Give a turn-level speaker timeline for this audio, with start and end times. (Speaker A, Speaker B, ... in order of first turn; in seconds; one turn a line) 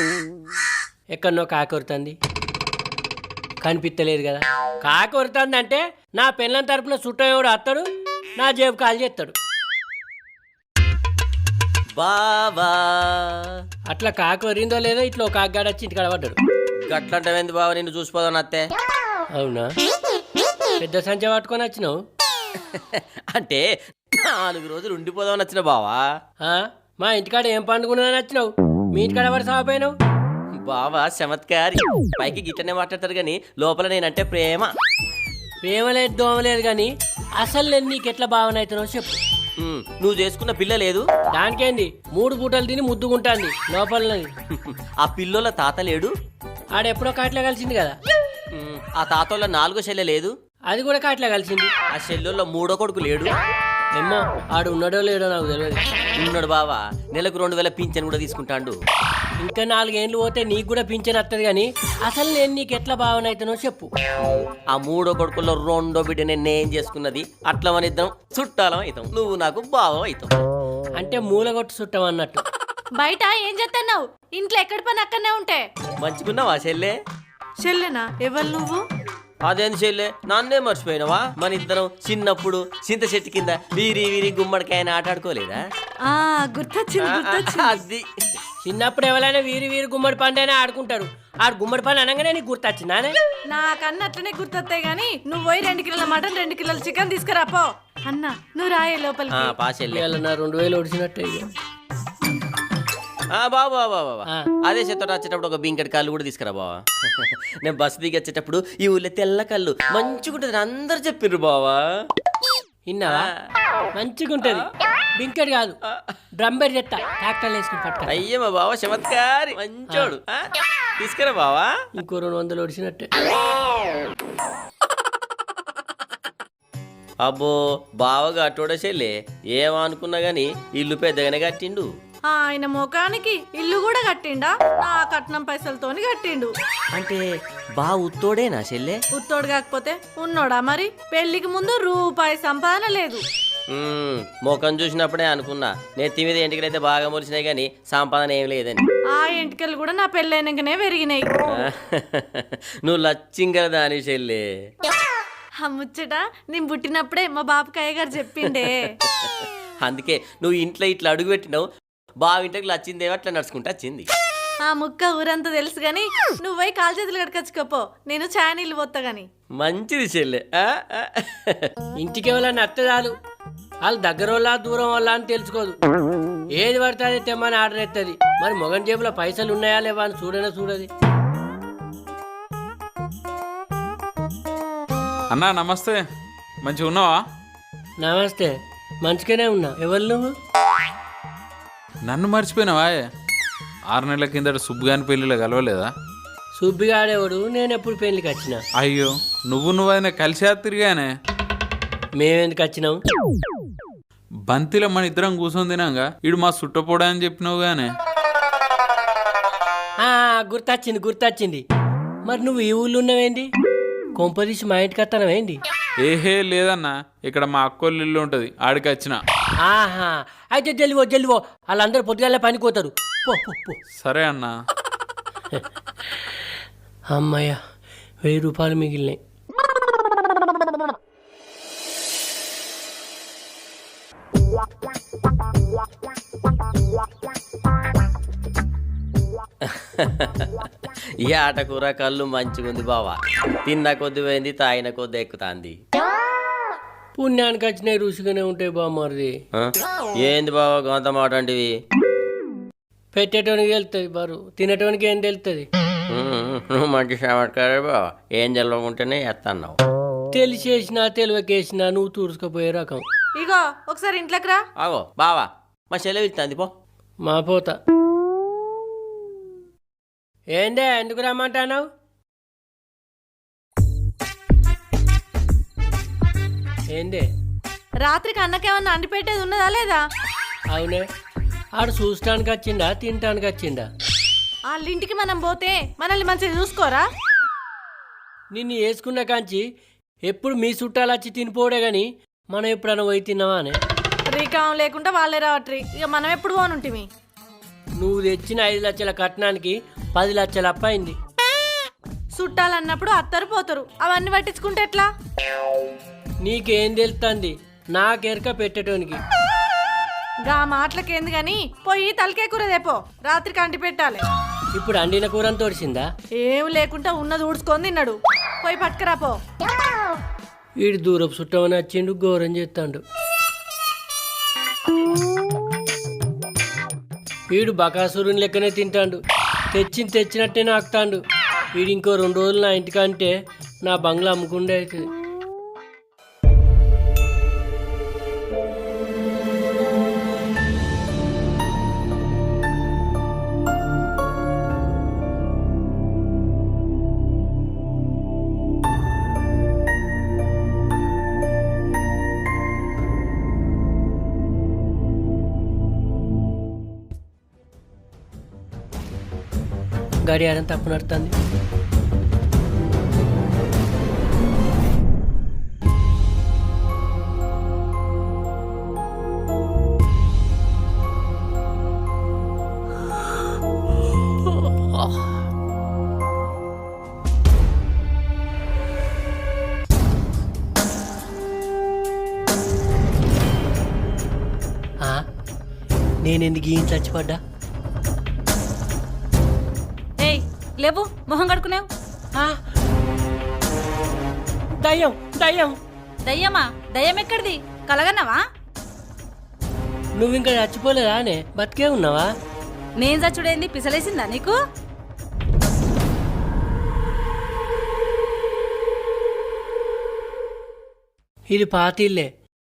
Speaker A: 1.1-2.2
Speaker A: 3.6-9.4
Speaker B: 12.0-13.6
Speaker A: 13.9-16.4
Speaker B: 16.9-18.7
Speaker A: 19.4-19.7
Speaker A: 20.8-22.0
Speaker B: 22.7-26.1
Speaker A: 26.4-29.9
Speaker B: 30.6-34.7
Speaker A: 35.6-39.2
Speaker B: 39.6-41.1
Speaker A: 41.3-44.3
Speaker B: 44.5-46.1
Speaker A: 46.8-48.0
Speaker B: 48.5-50.3
Speaker A: 50.7-51.7
Speaker B: 51.9-53.3
Speaker A: 54.0-55.8
Speaker B: 56.2-58.8
Speaker A: 59.4-63.9
Speaker B: 64.2-70.4
Speaker A: 71.0-72.4
Speaker C: 73.0-75.6
Speaker B: 76.0-77.0
Speaker C: 77.6-78.8
Speaker B: 79.5-85.6
Speaker C: 86.1-87.8
Speaker B: 87.0-88.2
Speaker A: 88.6-93.2
Speaker C: 93.5-99.5
Speaker B: 99.3-100.0
Speaker A: 99.9-101.5
Speaker B: 103.3-111.8
Speaker A: 112.9-113.3
Speaker B: 113.1-113.3
Speaker A: 114.0-115.8
Speaker A: 116.4-118.2
Speaker B: 118.1-120.5
Speaker B: 121.0-121.7
Speaker A: 122.0-123.1
Speaker B: 127.2-131.9
Speaker C: 132.3-136.5
Speaker B: 136.9-139.0
Speaker C: 139.2-143.2
Speaker B: 143.7-148.8
Speaker C: 149.2-151.3
Speaker B: 151.5-154.4
Speaker C: 155.6-158.9
Speaker B: 159.0-161.7
Speaker B: 162.2-164.1
Speaker C: 164.6-169.3
Speaker B: 169.6-171.7
Speaker A: 172.0-173.1
Speaker A: 173.8-175.8
Speaker A: 176.6-180.9
Speaker D: 185.3-186.0
Speaker D: 186.7-187.2
Speaker A: 188.0-188.5
Speaker A: 189.1-190.3
Speaker D: 192.1-193.1
Speaker D: 193.9-195.9
Speaker A: 196.6-198.6
Speaker D: 198.8-201.1
Speaker A: 202.2-203.0
Speaker D: 204.5-207.9
Speaker A: 210.0-211.6
Speaker A: 212.3-213.5
Speaker A: 214.2-215.6
Speaker D: 216.0-219.2
Speaker A: 219.6-223.8
Speaker D: 224.0-224.5
Speaker A: 225.5-226.4
Speaker A: 227.1-227.6
Speaker A: 228.2-229.2
Speaker B: 239.6-240.7
Speaker B: 241.2-245.8
Speaker A: 247.2-249.4
Speaker B: 249.5-251.7
Speaker A: 253.1-255.7
Speaker B: 256.1-259.8
Speaker A: 260.3-263.0
Speaker C: 263.4-264.6
Speaker B: 264.8-266.7
Speaker A: 267.2-267.8
Speaker A: 270.6-271.9
Speaker A: 276.9-277.3
Speaker C: 278.0-280.0
Speaker A: 280.7-281.1
Speaker A: 281.8-283.9
Speaker C: 284.7-287.1
Speaker A: 288.5-289.6
Speaker A: 290.3-293.8
Speaker C: 294.3-297.1
Speaker A: 298.0-301.2
Speaker C: 302.4-305.1
Speaker A: 306.4-309.2
Speaker C: 310.5-314.2
Speaker A: 314.8-316.1
Speaker C: 316.4-319.4
Speaker A: 320.8-323.0
Speaker A: 327.5-329.2
Speaker A: 329.7-331.2
Speaker A: 331.8-333.3
Speaker A: 333.9-335.1
Speaker A: 360.2-361.4
Speaker A: 374.5-375.2
Speaker A: 386.2-387.4
Speaker E: 390.2-391.9
Speaker A: 394.8-395.8
Speaker E: 396.3-398.4
Speaker A: 400.2-402.3
Speaker E: 403.0-404.6
Speaker A: 411.5-412.3